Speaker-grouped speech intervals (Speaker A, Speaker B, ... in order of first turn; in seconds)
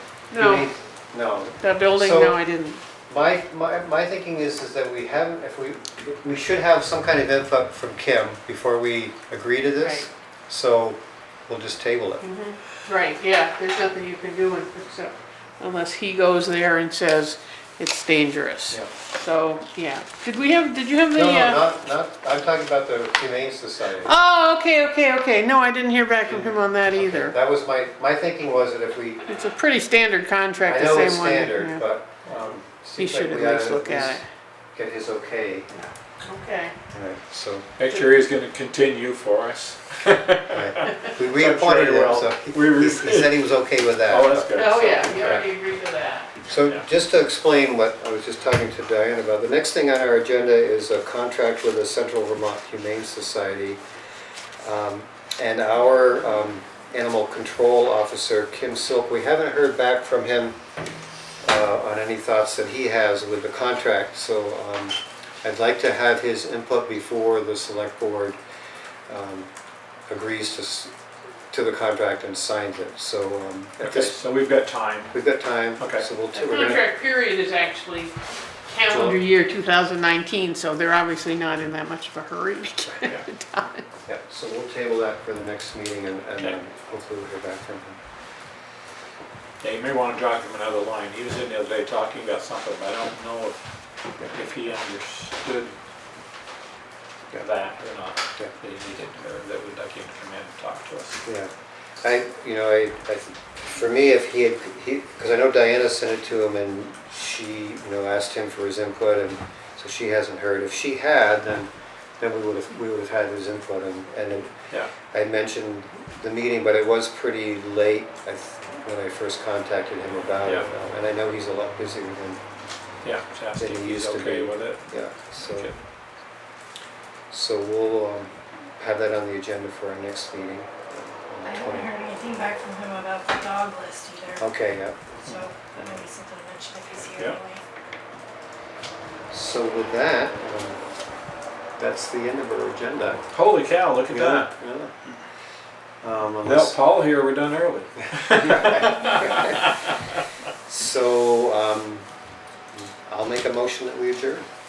Speaker A: 0.3-0.7, 1.6-2.8, 12.2-21.6, 24.0-27.4, 29.2-31.8, 33.0-34.2, 35.7-36.7, 44.5-46.3, 76.3-78.1, 78.7-83.8
Speaker B: 0.3-2.4, 3.1-12.3, 21.1-24.1, 26.2-29.2, 30.6-34.2, 34.7-35.7, 36.9-37.7, 40.5-45.4, 46.5-53.8, 54.6-60.6, 61.4-68.4, 69.1-69.5, 70.1-70.9, 71.5-74.1, 75.1-76.8, 78.9-79.2, 84.0-88.0, 101.2-114.5, 115.1-122.4, 123.6-125.7, 127.3-132.0, 134.4-135.2, 135.7-136.0, 139.3-140.8, 141.8-143.2, 144.1-144.9, 146.0-146.8, 148.3-149.8, 150.6-152.1, 152.8-154.5
Speaker C: 37.8-45.4, 73.8-75.2, 75.8-76.0, 89.6-93.6, 94.3-95.8, 97.4-101.2, 123.0-125.8, 137.1-137.4, 143.3-144.5, 146.4-149.8
Speaker D: 131.7-134.4, 135.3-137.6